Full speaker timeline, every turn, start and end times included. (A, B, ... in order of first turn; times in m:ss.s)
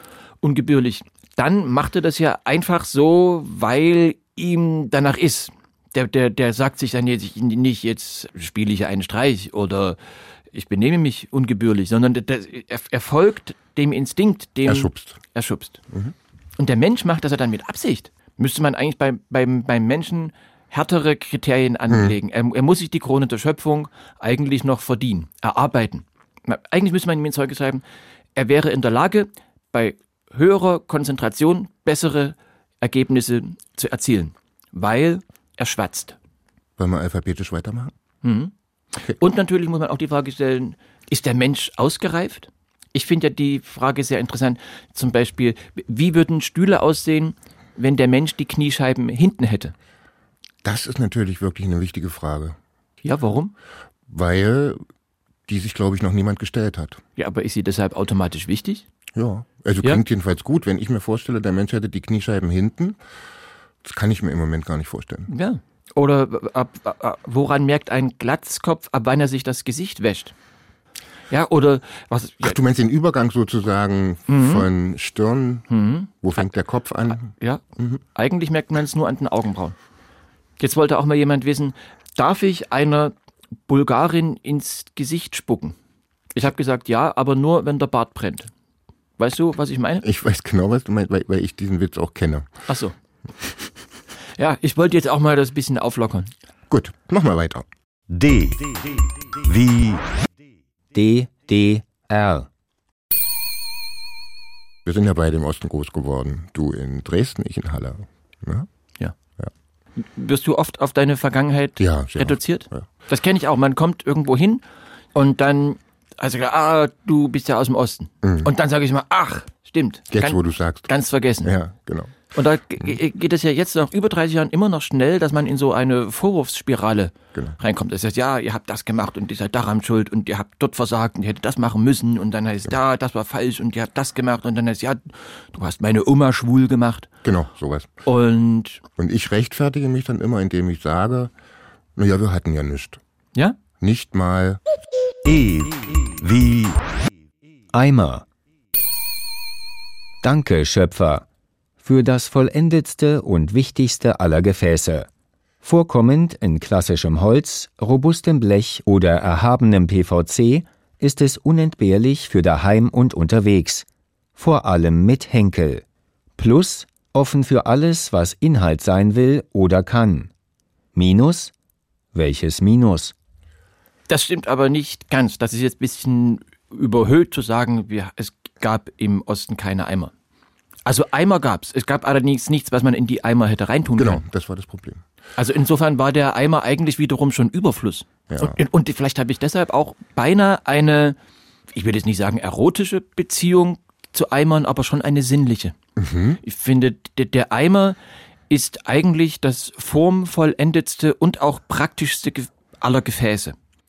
0:00.4-0:10.0 A
0:10.5-0:15.8 A
0:14.6-0:15.2 B
0:16.6-0:27.8 A
0:21.9-0:22.2 B
0:28.4-0:36.2 A
0:36.8-0:37.9 B
0:38.2-0:38.5 A
0:39.0-0:49.7 A
0:50.6-0:52.6 B
0:53.0-0:53.5 A
0:54.1-0:54.8 B
0:55.5-0:57.0 B
0:57.2-0:58.8 A
0:59.2-1:03.0 B
1:03.8-1:05.3 B
1:05.3-1:10.3 A
1:11.3-1:12.6 A
1:12.4-1:15.7 B
1:14.3-1:14.7 A
1:15.7-1:16.1 A
1:16.2-1:18.0 B
1:17.2-1:17.6 A
1:18.1-1:19.8 A
1:20.6-1:23.1 A
1:23.7-1:25.8 A
1:26.3-1:28.5 A
1:29.2-1:30.0 A
1:30.0-1:32.5 B
1:32.7-1:32.9 A
1:34.4-1:36.3 A
1:36.7-1:37.7 B
1:38.1-1:40.0 C
1:40.9-1:42.5 D
1:44.8-1:48.7 B
1:50.0-1:54.6 A
1:51.8-1:52.9 B
1:55.2-2:01.6 A
1:58.2-1:58.5 B
2:00.1-2:00.9 B
2:01.4-2:02.2 B
2:02.3-2:17.1 A
2:17.2-2:17.9 B
2:18.1-2:18.8 A
2:19.0-2:21.3 B
2:22.0-2:23.0 B
2:23.8-2:24.6 B
2:25.2-2:26.8 C
2:27.7-2:28.2 D
2:30.2-2:31.2 D
2:31.8-2:35.1 D
2:35.6-2:45.8 D
2:46.4-2:50.3 D
2:51.0-2:51.5 D
2:52.1-2:53.1 D
2:54.1-3:00.1 A
3:00.9-3:04.2 A
3:04.0-3:05.0 B
3:05.4-3:11.2 A
3:08.3-3:08.6 B
3:11.7-3:15.8 A
3:16.0-3:16.4 B
3:16.4-3:18.0 A
3:18.5-3:23.6 A